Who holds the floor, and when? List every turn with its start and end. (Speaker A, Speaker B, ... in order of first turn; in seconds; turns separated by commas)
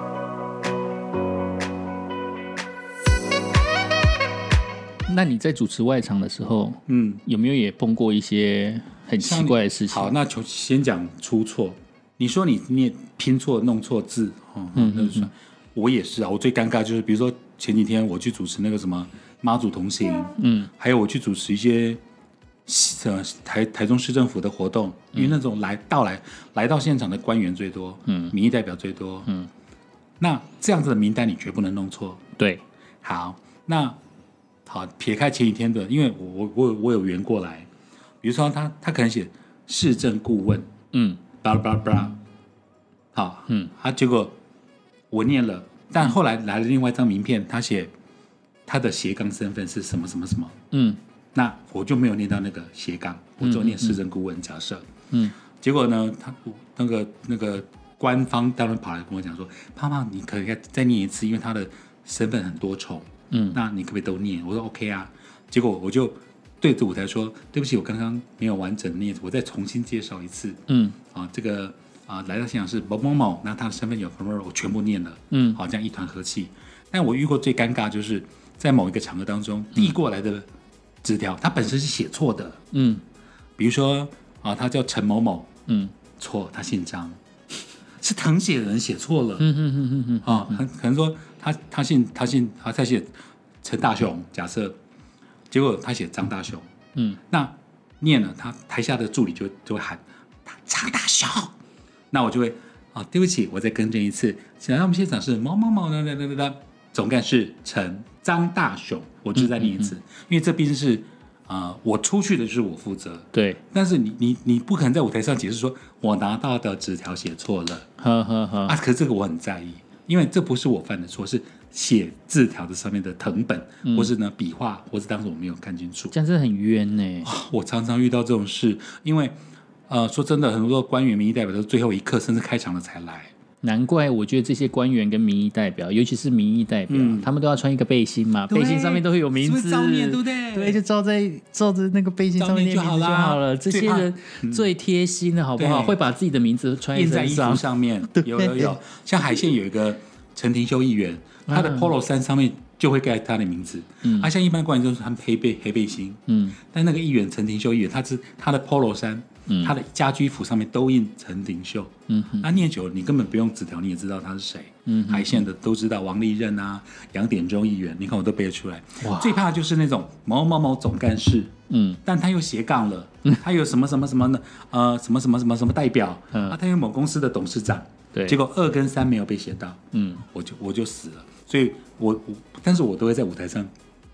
Speaker A: 5.1-10.1, Speaker B: 6.9-7.2, Speaker B: 9.2-22.0, Speaker A: 14.8-15.3, Speaker A: 20.4-20.7, Speaker B: 22.7-29.3, Speaker A: 28.1-28.3, Speaker B: 30.2-32.2, Speaker A: 32.4-32.6, Speaker B: 33.0-34.0, Speaker B: 34.7-37.7, Speaker B: 38.2-40.7, Speaker A: 40.9-41.2, Speaker B: 41.4-42.2, Speaker B: 43.1-44.4, Speaker B: 45.1-47.9, Speaker B: 48.7-50.6, Speaker A: 50.7-51.0, Speaker B: 51.3-54.9, Speaker A: 53.4-54.0, Speaker B: 55.6-80.5, Speaker A: 63.3-63.6, Speaker A: 70.7-71.0, Speaker A: 75.3-75.6, Speaker B: 81.0-82.6, Speaker A: 82.7-83.0, Speaker B: 83.6-85.5, Speaker A: 85.7-86.0, Speaker B: 86.2-87.2, Speaker B: 88.0-89.5, Speaker A: 89.4-90.6, Speaker B: 90.2-93.1, Speaker B: 93.6-94.8, Speaker B: 95.5-96.7, Speaker B: 97.3-101.5, Speaker B: 102.1-117.9, Speaker A: 109.4-109.9, Speaker A: 113.3-113.6, Speaker A: 118.0-118.8, Speaker B: 118.7-126.1, Speaker A: 123.8-124.1, Speaker A: 126.1-127.3, Speaker B: 127.2-129.4, Speaker B: 129.9-133.3, Speaker A: 133.6-148.8, Speaker B: 136.9-137.3, Speaker B: 138.5-140.8, Speaker B: 142.4-144.7, Speaker B: 145.6-146.0, Speaker B: 146.9-171.5, Speaker A: 151.5-151.9, Speaker A: 154.0-154.3, Speaker A: 156.3-156.6, Speaker A: 159.5-159.7, Speaker A: 162.1-162.5, Speaker A: 164.9-165.4, Speaker A: 169.0-169.4, Speaker A: 171.7-172.0, Speaker B: 172.1-183.7, Speaker A: 179.9-180.2